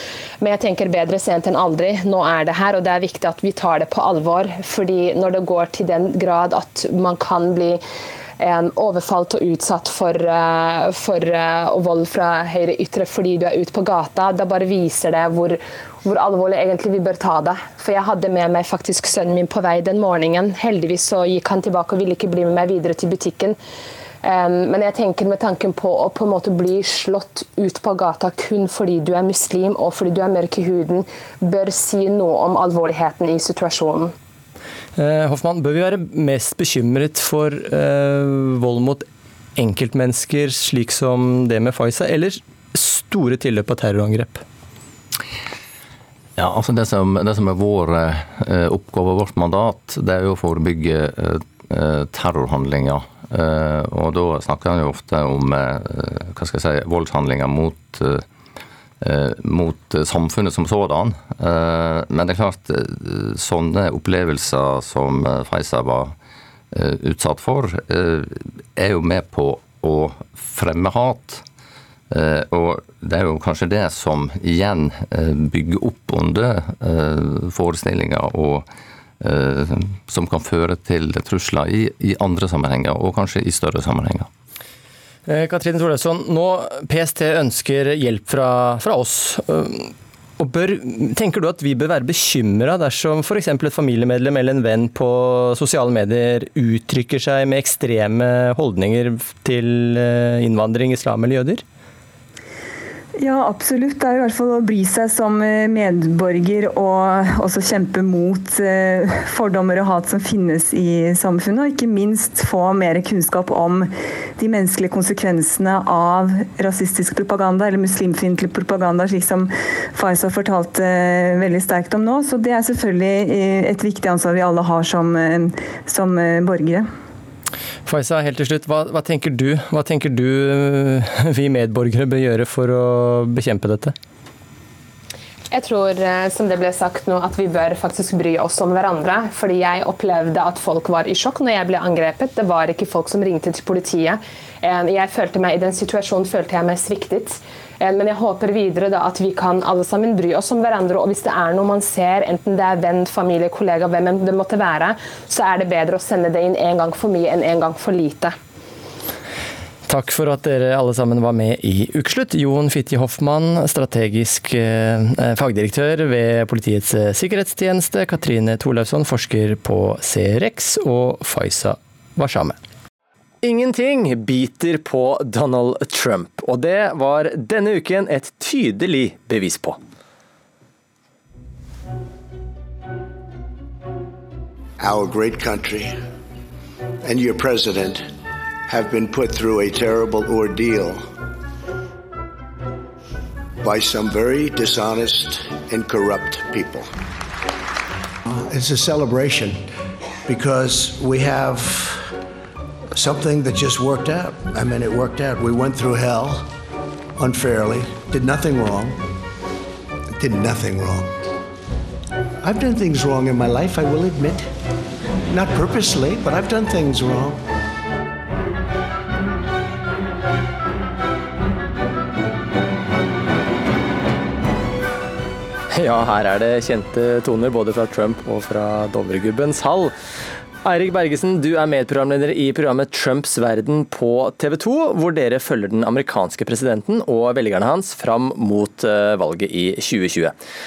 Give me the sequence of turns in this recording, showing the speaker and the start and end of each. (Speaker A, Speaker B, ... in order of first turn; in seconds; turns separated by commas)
Speaker A: 0.4-7.8, Speaker A: 8.4-23.6, Speaker A: 24.2-34.1, Speaker B: 35.0-44.4, Speaker C: 46.4-58.2, Speaker C: 59.0-66.1, Speaker C: 66.7-71.4, Speaker C: 72.1-78.7, Speaker C: 79.2-84.3, Speaker B: 85.3-101.6, Speaker D: 103.2-126.9, Speaker B: 127.8-133.9, Speaker A: 135.5-158.3, Speaker B: 159.9-172.6, Speaker B: 173.4-179.8, Speaker E: 184.8-186.0, Speaker E: 187.0-188.1, Speaker E: 188.7-191.1, Speaker E: 193.6-196.9, Speaker E: 198.3-199.7, Speaker E: 200.2-202.1, Speaker E: 202.9-206.5, Speaker E: 207.2-209.0, Speaker E: 210.1-211.2, Speaker E: 212.4-214.5, Speaker E: 215.2-217.4, Speaker B: 225.7-229.9, Speaker B: 230.6-240.3